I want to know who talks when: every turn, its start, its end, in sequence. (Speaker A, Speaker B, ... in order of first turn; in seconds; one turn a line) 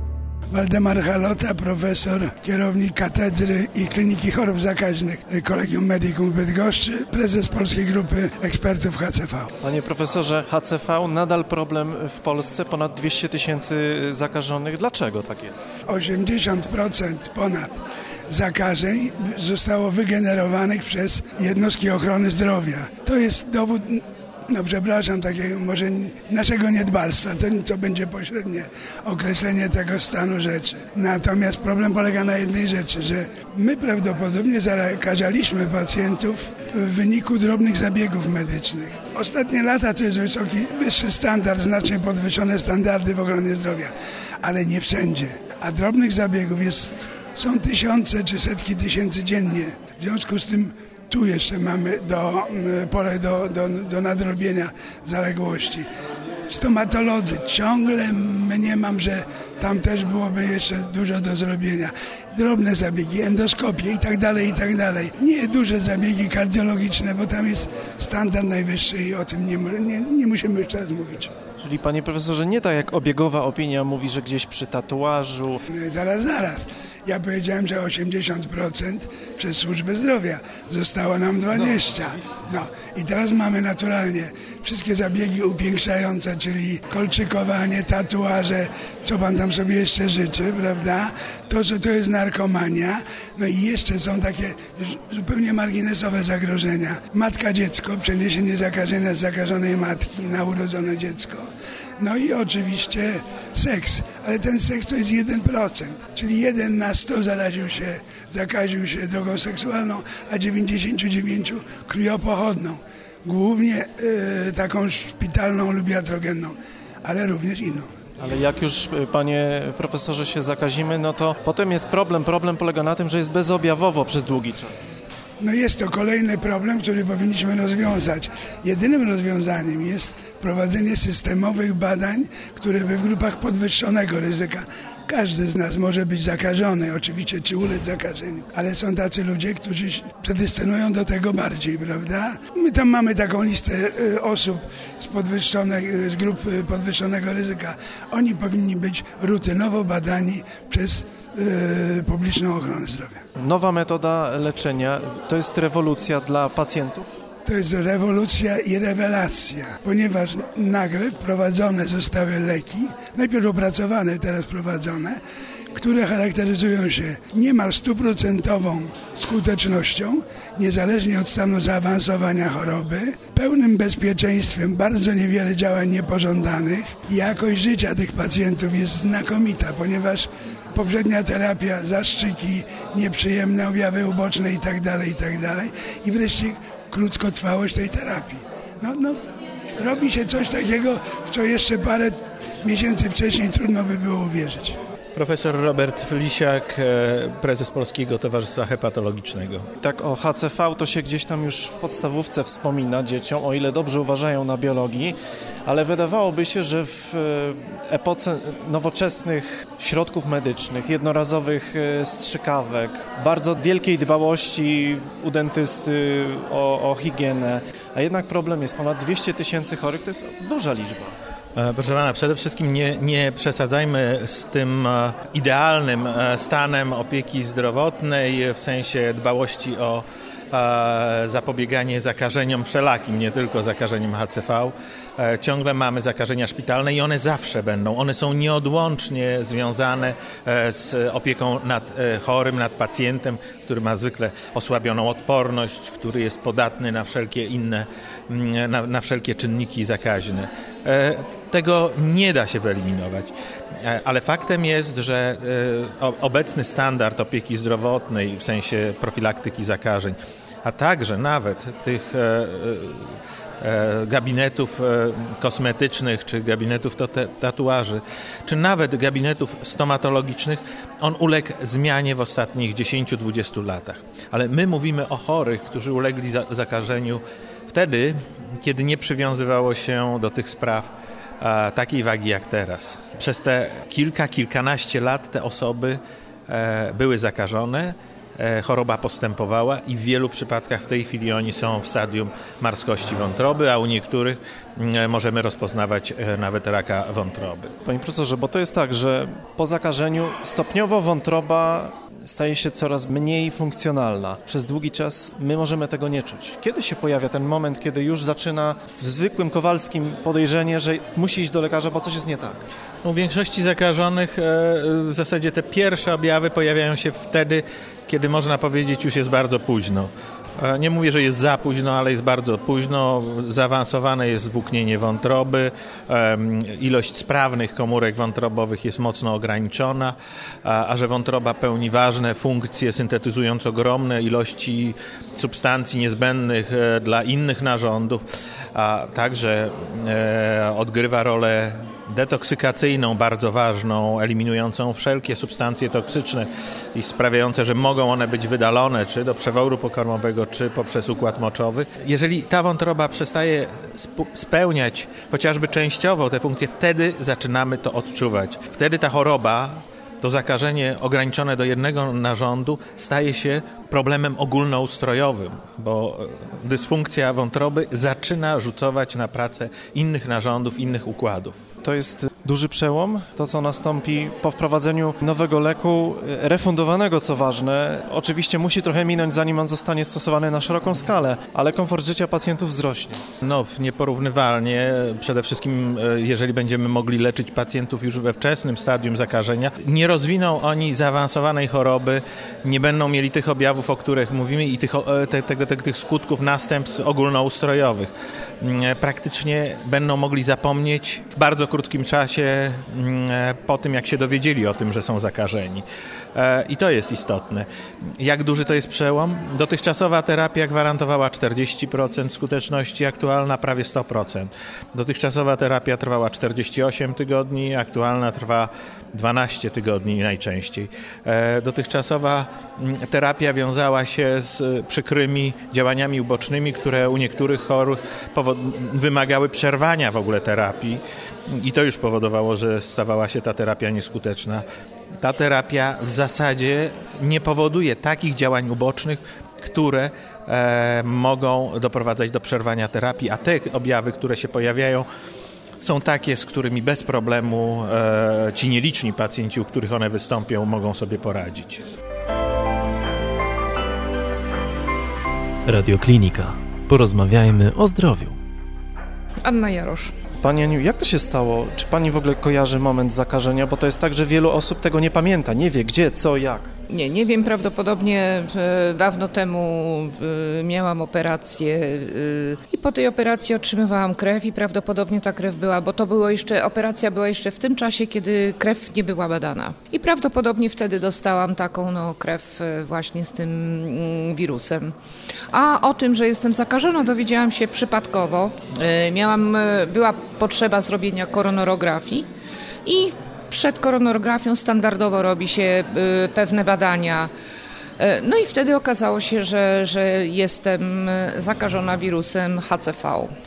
Speaker A: 0.5-9.5
Speaker B: 9.6-15.7
Speaker A: 15.9-17.8
Speaker A: 18.3-55.9
Speaker A: 56.5-71.3
Speaker B: 71.6-75.6
Speaker A: 75.7-101.5
Speaker A: 102.0-117.9
Speaker B: 118.2-125.0
Speaker A: 125.4-153.2
Speaker B: 153.4-157.1
Speaker A: 157.4-165.2
Speaker A: 165.7-189.2
Speaker A: 189.8-194.8
Speaker C: 195.1-199.7
Speaker B: 199.8-221.1
Speaker C: 221.6-297.7
Speaker B: 297.9-312.7
Speaker C: 313.0-338.2
Speaker C: 338.7-371.5
Speaker B: 371.8-383.2
Speaker C: 383.4-398.1
Speaker C: 398.6-407.6
Speaker C: 408.2-434.6
Speaker C: 435.2-445.1
Speaker C: 445.8-451.8
Speaker D: 455.8-456.5
Speaker D: 457.1-458.3
Speaker E: 459.4-460.1
Speaker B: 460.4-466.7
Speaker E: 466.9-484.9
Speaker E: 485.5-492.3
Speaker E: 492.8-497.3
Speaker E: 498.0-503.3